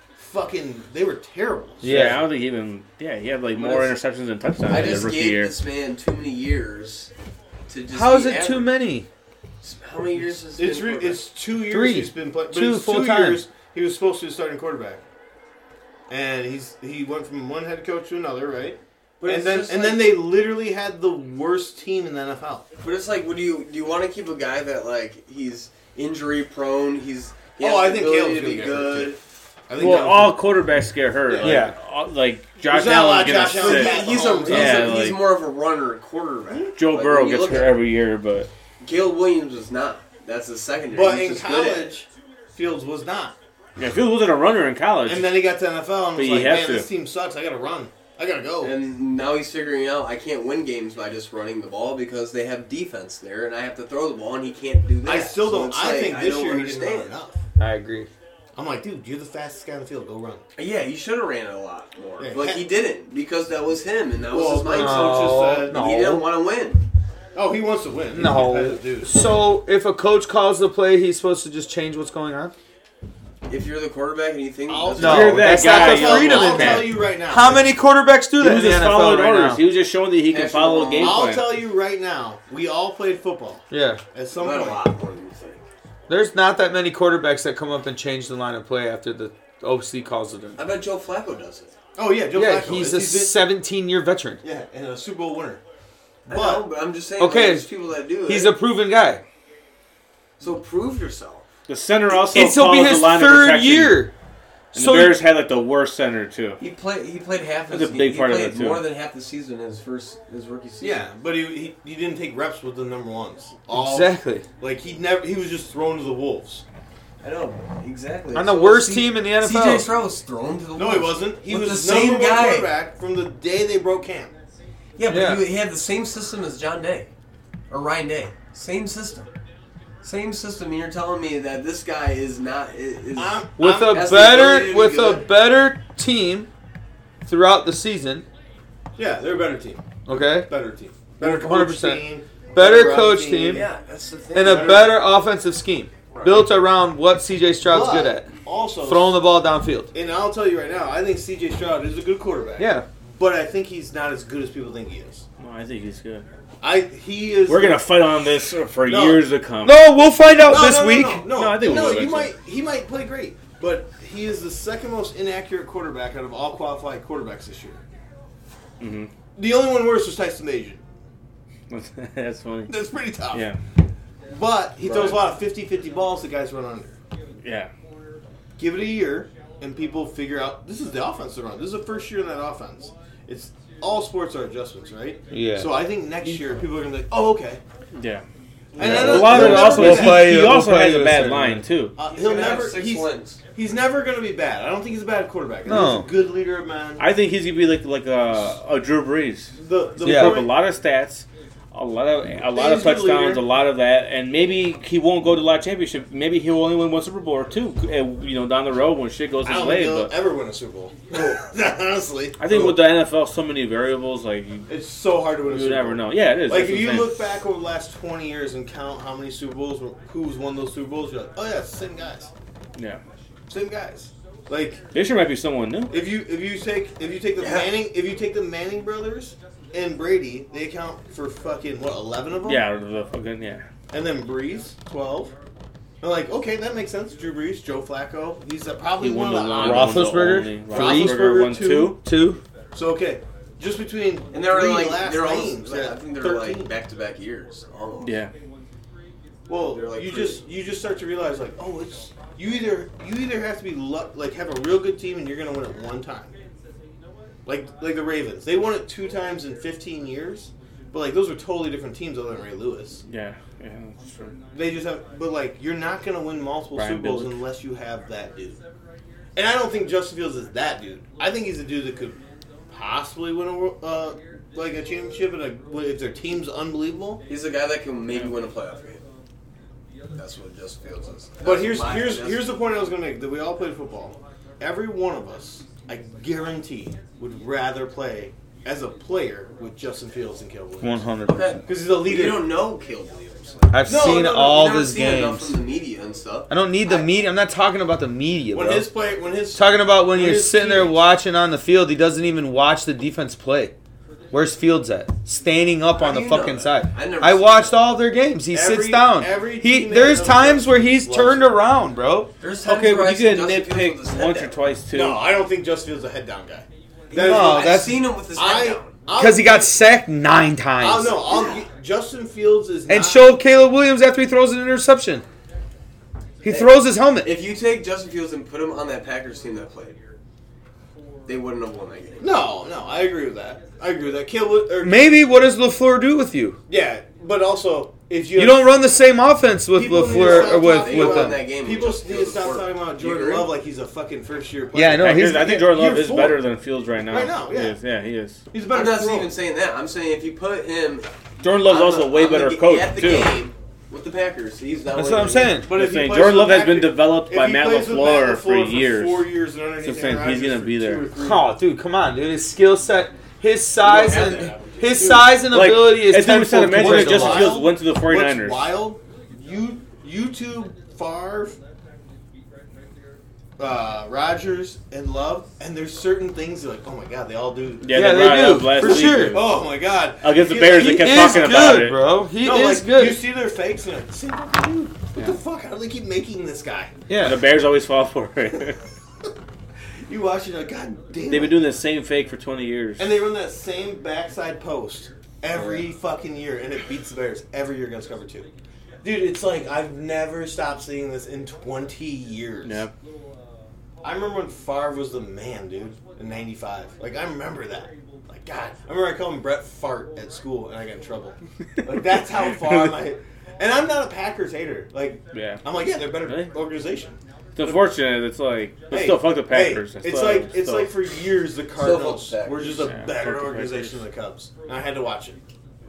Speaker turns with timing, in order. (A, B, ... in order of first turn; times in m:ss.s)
0:00.2-0:02.2 A
0:01.8-0:02.2 B
0:01.8-0:05.6 C
0:03.6-0:04.0 D
0:04.7-0:07.1 D
0:07.7-0:08.7 D
0:07.9-0:09.1 B
0:09.6-0:11.2 D
0:10.6-0:15.0 A
0:11.7-0:13.4 B
0:16.1-0:22.7 A
0:19.2-0:20.2 D
0:22.8-0:29.2 D
0:27.6-0:30.4 A
0:29.8-0:35.3 C
0:31.3-0:31.7 A
0:31.4-0:31.8 B
0:32.7-0:35.0 A
0:33.5-0:37.8 D
0:36.8-0:38.5 C
0:38.8-0:41.9 D
0:40.9-0:43.4 A
0:43.8-0:45.4 C
0:45.1-0:48.8 A
0:46.2-0:46.9 C
0:48.6-0:57.2 D
0:55.0-0:57.4 A
0:57.6-0:58.1 B
0:58.6-1:00.4 A
1:00.6-1:06.8 D
1:02.2-1:02.7 A
1:04.3-1:05.9 A
1:04.7-1:06.3 B
1:07.4-1:09.1 A
1:08.1-1:12.5 B
1:13.4-1:15.8 D
1:14.7-1:17.7 A
1:15.0-1:19.6 B
1:15.0-1:16.9 C
1:18.4-1:21.4 C
1:20.3-1:21.2 D
1:21.0-1:24.9 A
1:23.7-1:24.0 B
1:24.4-1:25.7 D
1:26.1-1:30.6 B
1:30.6-1:31.7 D
1:32.0-1:33.4 A
1:32.3-1:34.4 B
1:34.4-1:35.6 A
1:36.3-1:36.7 A
1:36.3-1:38.6 D
1:37.2-1:37.7 B
1:38.3-1:39.2 B
1:40.4-1:41.5 D
1:41.7-1:44.1 C
1:42.1-1:44.1 B
1:44.7-1:45.2 B
1:44.7-1:46.6 C
1:46.6-1:51.0 D
1:47.7-1:48.9 C
1:50.8-1:56.6 A
1:53.7-1:54.4 B
1:57.2-2:02.7 D
1:58.3-1:59.9 B
2:00.8-2:04.3 A
2:05.0-2:07.1 D
2:05.1-2:05.4 B
2:07.7-2:09.3 D
2:10.0-2:14.9 D
2:13.2-2:15.3 A
2:13.6-2:16.5 B
2:17.2-2:18.3 B
2:19.0-2:23.7 A
2:20.1-2:20.5 B
2:21.2-2:23.7 B
2:23.4-2:25.0 D
2:24.3-2:28.3 B
2:24.4-2:25.0 A
2:26.1-2:26.5 D
2:27.7-2:29.2 A
2:28.8-2:29.9 B
2:29.9-2:35.3 A
2:32.6-2:32.9 B
2:35.4-2:36.3 C
2:36.6-2:37.8 A
2:37.5-2:39.8 C
2:38.9-2:39.3 A
2:39.6-2:41.3 B
2:40.3-2:47.8 A
2:41.3-2:42.3 C
2:48.8-2:49.1 C
2:49.4-2:50.8 A
2:51.7-2:52.8 C
2:52.7-2:53.5 A
2:53.3-2:53.6 C
2:54.3-2:57.0 A
2:54.9-2:55.2 C
2:57.4-2:57.7 C
2:58.6-3:07.6 A
3:05.3-3:05.7 B
3:08.0-3:08.2 C
3:08.7-3:10.4 A
3:08.8-3:11.6 B
3:08.8-3:11.9 C
3:12.0-3:17.1 A
3:12.0-3:13.4 D
3:15.7-3:16.1 B
3:17.0-3:30.1 C
3:19.6-3:20.6 A
3:20.0-3:20.4 B
3:22.4-3:23.4 A
3:29.4-3:32.8 A
3:32.4-3:34.7 C
3:34.7-3:42.3 A
3:35.5-3:37.2 C
3:42.8-3:43.0 C
3:43.5-3:44.8 A
3:44.9-3:45.9 C
3:45.9-3:52.6 A
3:47.4-3:47.7 D
3:52.4-3:53.6 C
3:53.9-3:55.3 A
3:56.0-4:02.0 A
3:59.0-4:02.0 C
3:59.6-4:01.2 B
4:01.9-4:02.4 B
4:02.7-4:06.8 A
4:04.3-4:08.2 D
4:08.0-4:08.3 C
4:09.5-4:16.3 A
4:09.5-4:10.4 D
4:17.4-4:23.0 A
4:23.1-4:24.4 C
4:24.5-4:28.6 A
4:26.8-4:27.3 C
4:29.4-4:32.2 A
4:32.7-4:37.2 A
4:37.3-4:39.0 D
4:40.2-4:42.5 D
4:41.4-4:51.0 A
4:50.8-4:51.6 B
4:51.3-4:57.0 D
4:51.7-4:52.5 A
4:53.7-4:55.6 B
4:53.9-4:54.7 A
4:56.5-4:58.9 B
4:58.5-5:01.0 A
4:59.6-5:03.7 B
5:04.3-5:12.3 B
5:06.0-5:07.8 D
5:08.5-5:11.5 A
5:12.4-5:14.6 D
5:12.6-5:15.2 C
5:14.9-5:19.8 A
5:17.1-5:19.0 D
5:17.1-5:18.1 B
5:19.2-5:21.2 B
5:20.8-5:23.3 A
5:21.3-5:21.6 D
5:22.9-5:25.2 B
5:26.4-5:27.3 B
5:27.2-5:30.0 D
5:31.3-5:32.3 D
5:32.2-5:35.1 A
5:34.8-5:36.6 B
5:36.7-5:38.7 A
5:38.4-5:41.4 B
5:39.7-5:46.4 A
5:40.1-5:43.5 D
5:44.7-5:45.5 B
5:45.0-5:48.4 C
5:47.0-5:47.8 A
5:48.5-5:49.3 A
5:48.7-5:51.1 D
5:51.4-5:53.4 C
5:51.6-5:55.6 D
5:55.0-5:55.7 B
5:55.6-6:01.5 A
5:55.7-5:59.3 C
5:59.8-6:01.1 C
6:01.2-6:07.5 B
6:03.8-6:05.1 D
6:04.3-6:05.4 A
6:05.4-6:08.7 C
6:06.7-6:11.6 A
6:13.6-6:18.0 A
6:17.8-6:19.6 C
6:17.9-6:19.4 B
6:18.8-6:26.9 A
6:20.2-6:22.0 C
6:20.7-6:23.2 B
6:27.1-6:27.4 B
6:27.2-6:28.8 C
6:30.1-6:31.7 A
6:31.3-6:33.1 C
6:33.0-6:38.5 A
6:39.0-6:42.9 A
6:42.6-6:42.9 C
6:44.0-6:57.8 A
6:52.6-6:52.9 C
6:55.3-6:56.5 C
6:57.6-7:00.9 C
6:58.9-7:05.4 A
7:01.8-7:02.9 D
7:02.8-7:04.0 C